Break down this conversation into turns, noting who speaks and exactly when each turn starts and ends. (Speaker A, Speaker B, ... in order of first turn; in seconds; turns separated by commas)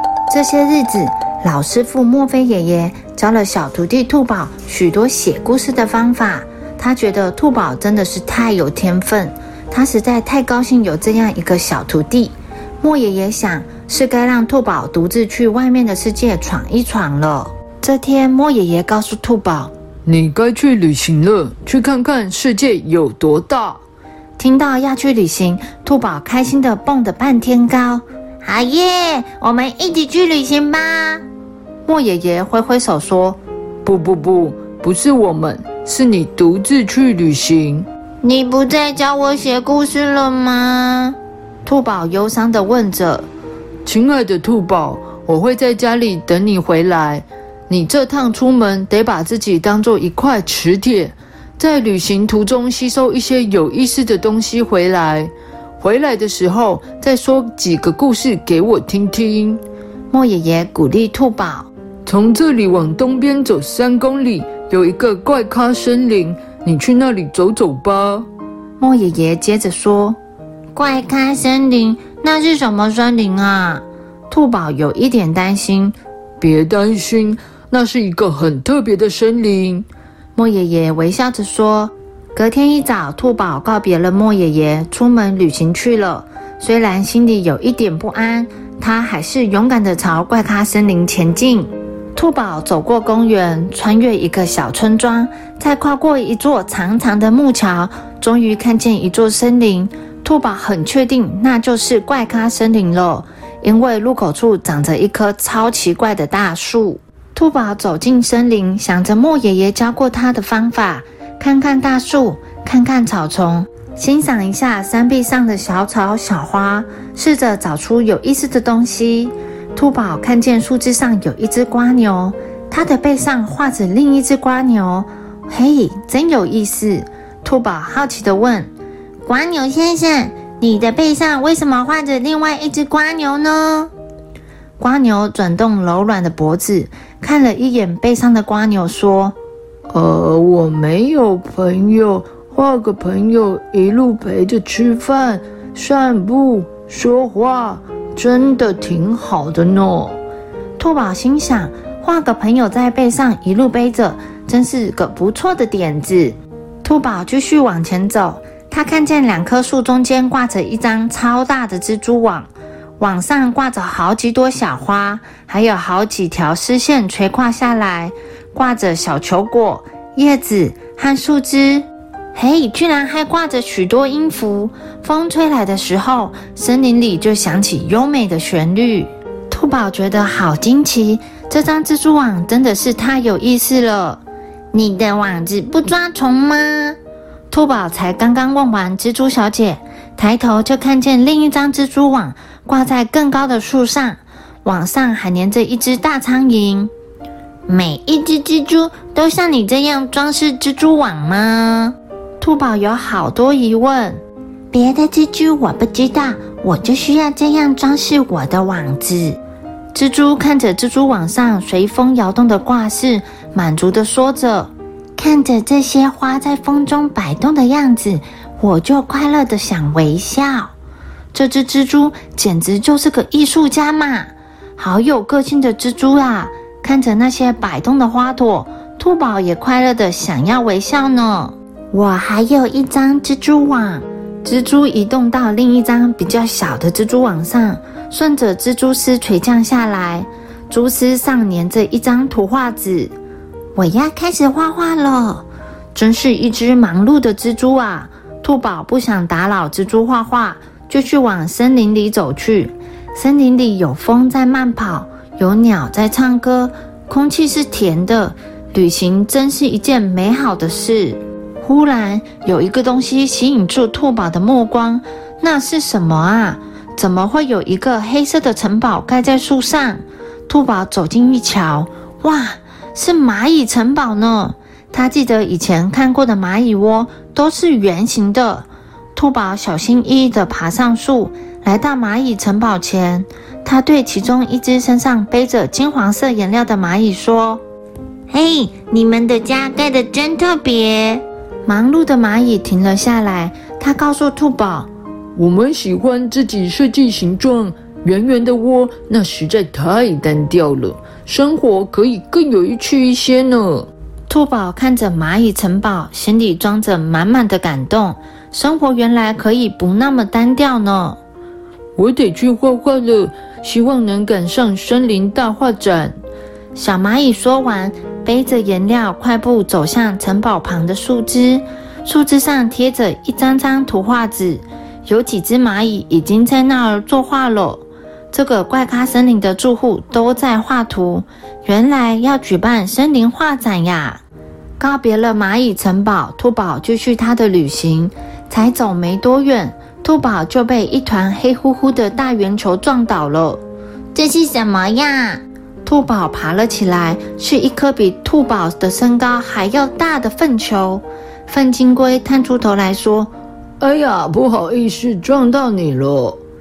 Speaker A: 0.3-19.7, Speaker B: 20.1-23.8, Speaker A: 24.4-31.2, Speaker A: 31.8-33.4, Speaker B: 33.8-37.9, Speaker A: 38.2-43.3, Speaker B: 43.9-59.6, Speaker A: 60.1-61.7, Speaker B: 62.0-68.3, Speaker A: 68.8-70.2, Speaker A: 70.7-75.9, Speaker B: 76.4-79.8, Speaker A: 80.3-128.7, Speaker A: 129.2-133.9, Speaker A: 134.8-139.3, Speaker B: 139.9-150.2, Speaker A: 150.8-184.2, Speaker A: 184.7-187.0, Speaker A: 187.5-196.9, Speaker A: 197.7-204.2, Speaker A: 204.7-209.4, Speaker A: 209.9-220.7, Speaker A: 221.3-243.1, Speaker A: 243.8-287.6, Speaker A: 288.3-294.9, Speaker B: 295.4-303.9, Speaker A: 304.3-311.2, Speaker B: 312.0-316.1, Speaker A: 316.7-334.2, Speaker A: 334.8-343.6, Speaker A: 344.1-353.3, Speaker B: 353.8-356.4